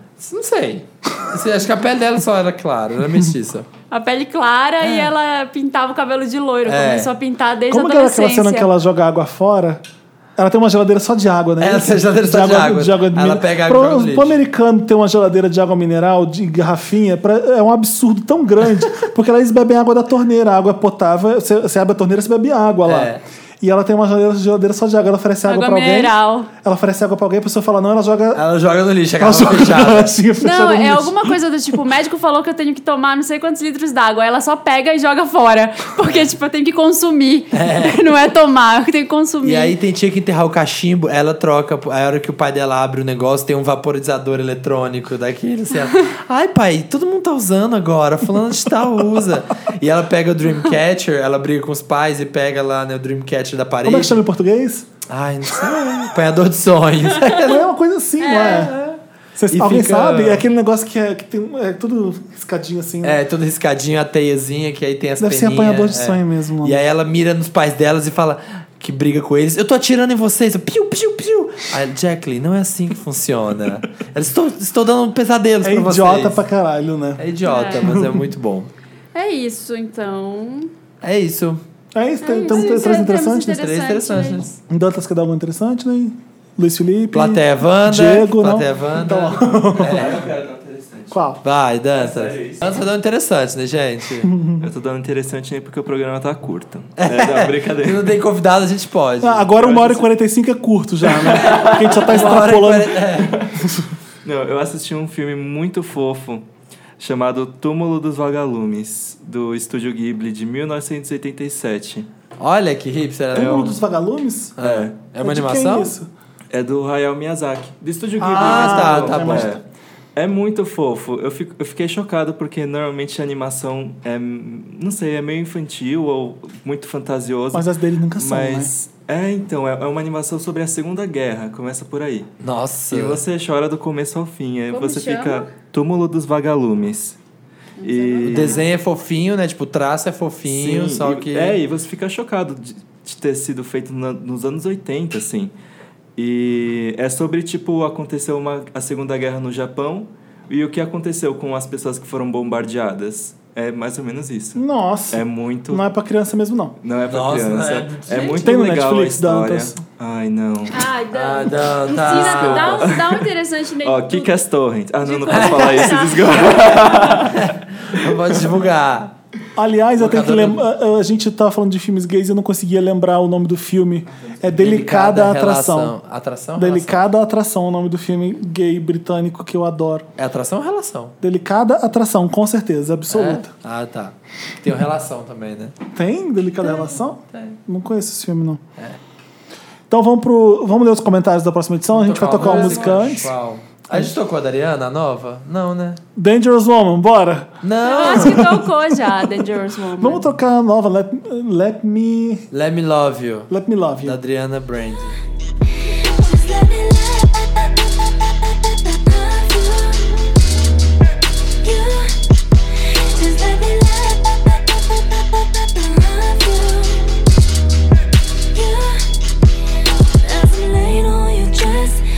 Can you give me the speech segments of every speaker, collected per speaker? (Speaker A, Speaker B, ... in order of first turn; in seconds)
Speaker A: 0.2-3.7, 4.8-5.1, 6.7-7.1, 11.6-14.4, 22.9-23.2, 28.4-30.2, 37.5-38.1, 39.4-54.2, 55.1-57.6, 58.4-59.0, 59.5-60.4, 63.0-76.4, 77.2-78.7, 81.0-81.6, 83.4-84.6, 87.1-90.2, 91.4-94.3, 97.0-99.5, 101.2-103.4, 112.4-113.8, 114.6-115.9, 118.2-119.6, 132.4-133.2, 138.2-141.6, 157.1-158.5, 161.1-163.0, 165.3-169.1, 170.0-170.6, 174.6-177.1, 180.2-181.1, 183.1-185.7, 186.8-187.6, 191.9-196.0, 197.6-198.6, 202.5-203.5, 204.0-205.2
Speaker B: 3.9-8.7, 25.5-26.5, 30.4-39.8, 58.2-58.7, 77.4-77.9, 79.1-80.7, 82.2-84.5, 134.7-135.5, 137.8-138.6, 160.7-164.4, 165.0-166.8, 192.4-192.8, 197.8-200.2
Speaker C: 7.7-9.8, 10.4-28.4, 29.2-31.3, 53.8-54.9, 57.2-58.8, 59.4-63.2, 65.2-66.8, 75.6-77.2, 77.8-78.2, 81.9-83.6, 84.7-90.1, 91.1-91.4, 94.2-94.7, 99.2-103.9, 113.3-114.6, 115.2-116.1, 118.2-119.6, 127.5-128.7, 154.6-156.8, 158.4-159.8, 169.6-175.9, 176.6-180.1, 181.2-183.5, 185.9-188.6, 189.9-193.3, 193.9-194.2, 196.2-202.5, 203.5-204.2
Speaker D: 89.9-91.2, 92.0-92.8, 94.6-98.2, 99.6-100.0, 104.2-106.5, 107.0-112.1, 113.3-113.7, 114.6-115.0, 116.5-119.6, 120.2-132.3, 132.9-137.2, 137.8-138.6, 140.5-145.5, 146.2-154.6, 155.1-155.9, 156.8-160.9, 162.0-163.3, 163.8-168.4
Speaker E: 206.0-207.6, 208.7-210.3, 211.7-212.1, 213.2-217.2, 218.6-218.9, 220.4-221.8